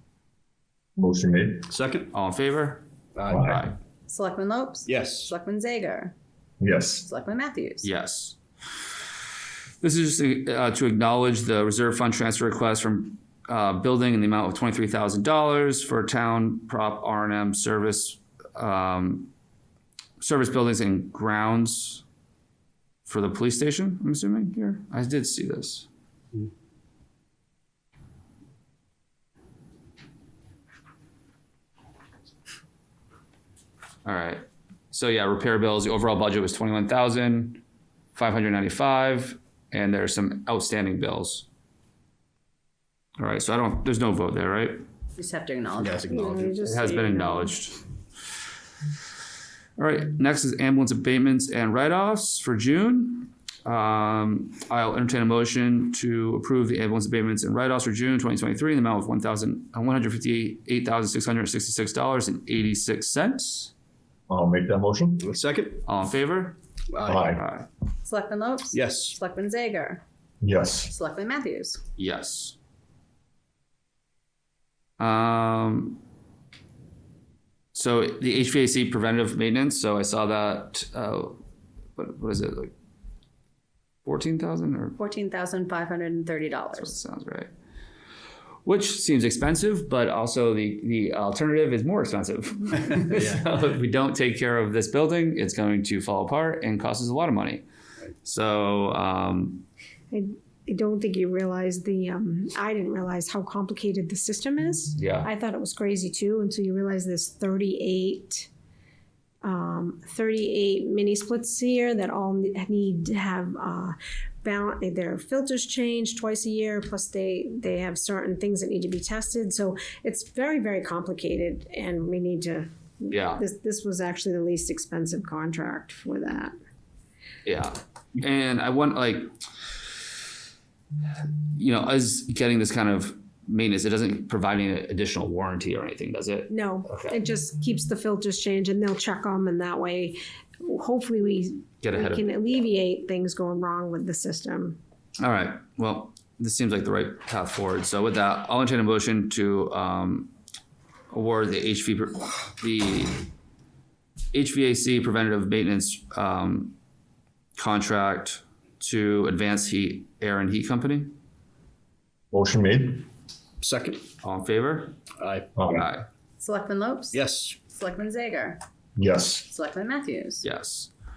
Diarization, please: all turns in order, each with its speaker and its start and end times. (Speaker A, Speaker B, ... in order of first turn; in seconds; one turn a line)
Speaker A: 0.9-1.7
Speaker B: 1.7-2.1
Speaker C: 2.1-3.8
Speaker B: 3.1-3.5
Speaker A: 3.3-3.6
Speaker D: 4.1-6.1
Speaker B: 4.8-5.3
Speaker A: 6.6-7.0
Speaker D: 7.0-7.9
Speaker C: 7.8-8.4
Speaker C: 9.8-19.3
Speaker C: 20.2-22.0
Speaker C: 23.1-25.9
Speaker C: 34.0-37.6
Speaker C: 38.1-41.5
Speaker C: 43.2-44.8
Speaker D: 45.2-46.4
Speaker B: 45.8-46.5
Speaker E: 46.1-47.5
Speaker C: 46.6-47.8
Speaker C: 49.8-63.7
Speaker A: 64.3-65.2
Speaker B: 65.2-65.8
Speaker C: 65.8-66.6
Speaker B: 66.9-67.3
Speaker A: 67.0-67.4
Speaker C: 67.3-67.7
Speaker D: 68.0-70.0
Speaker B: 68.7-69.2
Speaker A: 70.4-70.9
Speaker D: 70.9-71.8
Speaker C: 72.0-72.6
Speaker C: 75.0-76.0
Speaker C: 77.7-81.4
Speaker C: 82.0-82.7
Speaker C: 84.0-85.0
Speaker D: 85.0-87.0
Speaker C: 86.8-87.5
Speaker C: 88.6-97.6
Speaker C: 98.2-99.7
Speaker E: 100.1-108.5
Speaker C: 105.0-105.3
Speaker E: 109.4-126.5
Speaker C: 123.1-123.4
Speaker C: 127.4-129.3
Speaker C: 131.5-137.2
Speaker E: 136.5-144.8
Speaker C: 141.8-142.3
Speaker C: 145.2-150.3
Speaker C: 151.1-153.2
Speaker C: 154.3-156.8
Speaker C: 157.6-161.1
Speaker A: 162.3-163.1
Speaker B: 163.6-164.0
Speaker C: 164.2-164.9
Speaker B: 165.2-165.5
Speaker A: 165.6-165.8
Speaker C: 165.7-166.1
Speaker D: 166.4-168.6
Speaker B: 167.1-167.6
Speaker A: 169.0-169.5
Speaker D: 169.5-170.4
Speaker C: 170.4-170.9